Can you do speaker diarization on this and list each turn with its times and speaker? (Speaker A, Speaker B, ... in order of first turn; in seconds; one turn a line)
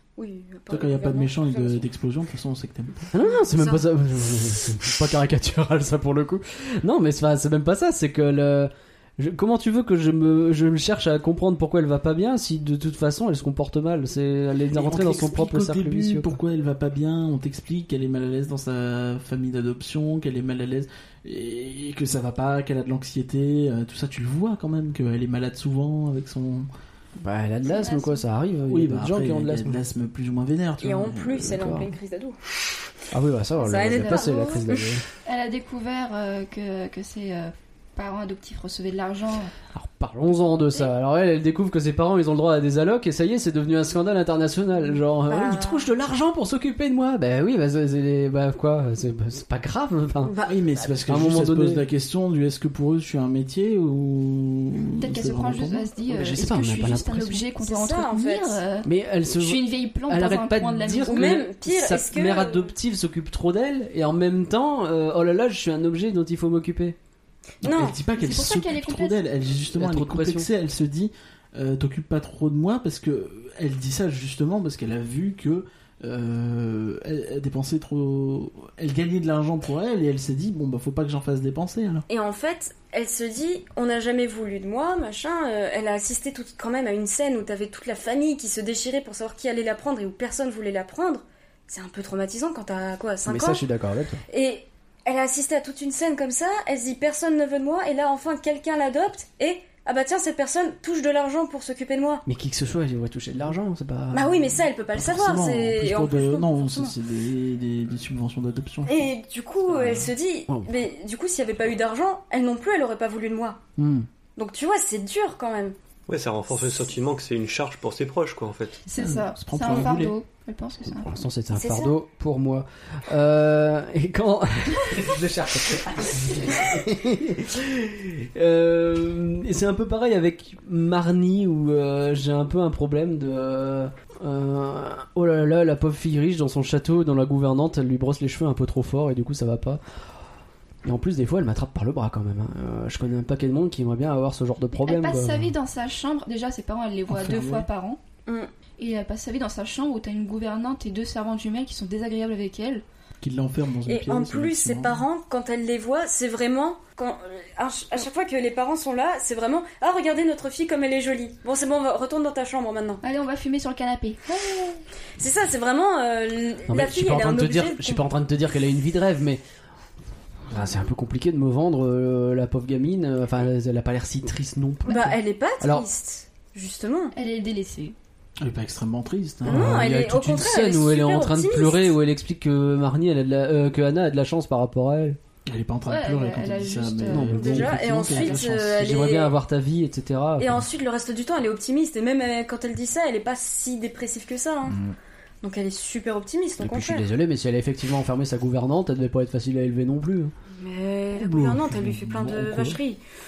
Speaker A: 0.2-1.9
Speaker B: 0.7-3.1
Speaker C: 3.1-16.4
Speaker A: 3.2-3.9
Speaker B: 14.7-26.7
Speaker C: 27.2-29.8
Speaker D: 27.7-28.2
Speaker B: 28.7-31.6
Speaker A: 30.8-32.4
Speaker C: 31.4-31.9
Speaker C: 33.1-35.0
Speaker A: 33.6-34.9
Speaker D: 33.8-34.5
Speaker D: 35.2-39.5
Speaker C: 39.7-50.3
Speaker A: 45.3-45.9
Speaker A: 50.2-50.6
Speaker B: 50.4-55.9
Speaker C: 51.1-51.8
Speaker D: 55.0-61.3
Speaker C: 56.1-57.4
Speaker A: 57.6-58.6
Speaker C: 58.8-67.0
Speaker A: 61.1-62.8
Speaker A: 67.6-68.0
Speaker B: 67.6-82.0
Speaker D: 68.2-69.2
Speaker C: 69.8-70.5
Speaker A: 82.1-93.6
Speaker C: 93.2-94.2
Speaker A: 94.3-102.2
Speaker C: 102.3-104.4
Speaker A: 104.1-107.0
Speaker B: 104.9-109.1
Speaker A: 108.8-113.6
Speaker B: 109.7-110.1
Speaker C: 113.8-114.1
Speaker A: 114.4-115.8
Speaker E: 116.1-118.8
Speaker D: 118.9-121.3
Speaker B: 119.0-120.2
Speaker C: 120.9-139.8
Speaker A: 121.5-122.0
Speaker C: 140.8-145.5
Speaker D: 144.7-148.0
Speaker B: 147.1-147.7
Speaker D: 148.8-152.8
Speaker B: 153.2-155.1
Speaker A: 153.9-163.0
Speaker D: 163.0-164.2
Speaker A: 164.3-168.0
Speaker C: 166.7-169.4
Speaker C: 170.5-175.9
Speaker A: 174.9-177.1
Speaker D: 177.2-177.9
Speaker B: 178.4-179.8
Speaker A: 179.4-182.0
Speaker C: 179.4-185.2
Speaker B: 185.5-188.9
Speaker D: 185.9-187.3
Speaker C: 187.1-188.0
Speaker A: 187.3-189.3
Speaker C: 188.5-190.7
Speaker A: 190.4-194.8
Speaker A: 195.4-197.1
Speaker C: 196.6-200.3
Speaker A: 200.6-203.0
Speaker B: 201.3-202.8